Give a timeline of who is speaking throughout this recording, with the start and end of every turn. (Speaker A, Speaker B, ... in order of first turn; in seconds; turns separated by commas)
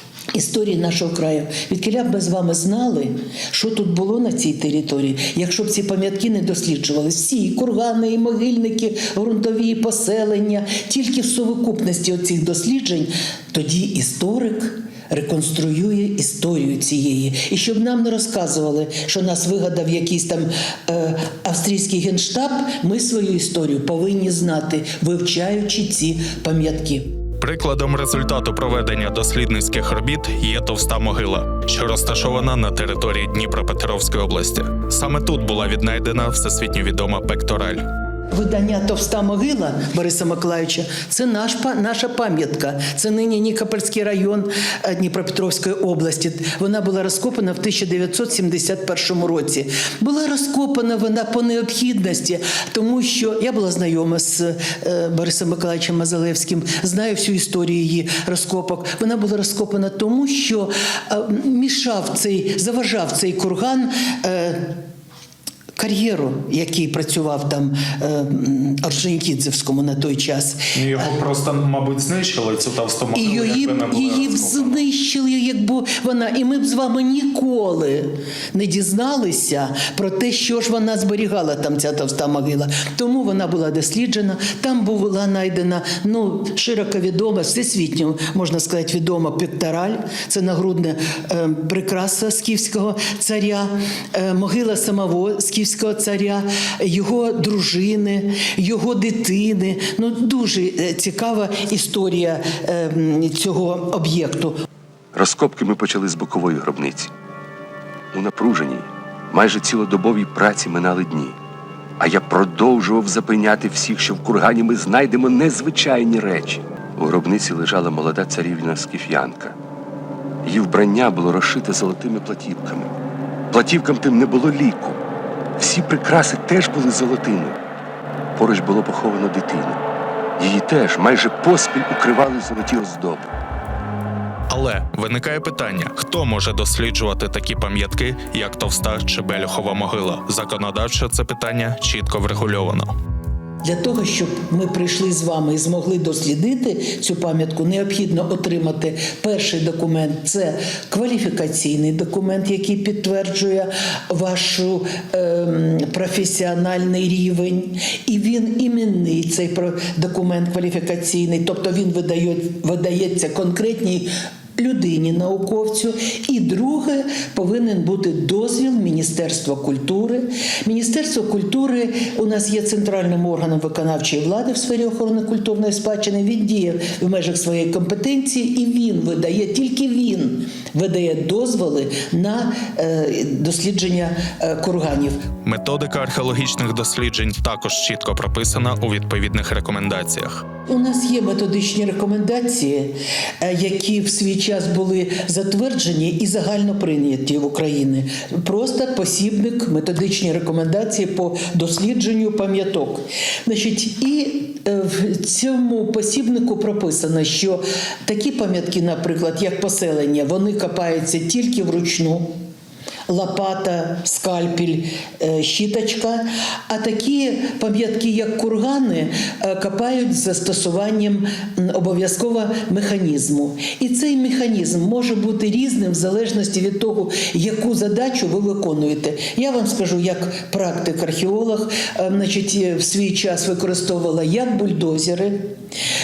Speaker A: 0.3-27.1, Speaker B: 27.4-37.8, Speaker A: 38.3-64.8, Speaker A: 65.8-71.1, Speaker B: 70.7-74.8, Speaker A: 73.1-104.5, Speaker C: 105.1-107.1, Speaker C: 108.1-111.3, Speaker C: 112.0-119.5, Speaker C: 120.4-122.9, Speaker C: 123.5-125.0, Speaker C: 125.6-127.6, Speaker C: 128.3-129.8, Speaker C: 130.4-133.3, Speaker B: 134.5-142.9, Speaker A: 143.6-185.2, Speaker B: 185.4-190.4, Speaker A: 190.7-212.3, Speaker A: 213.1-235.4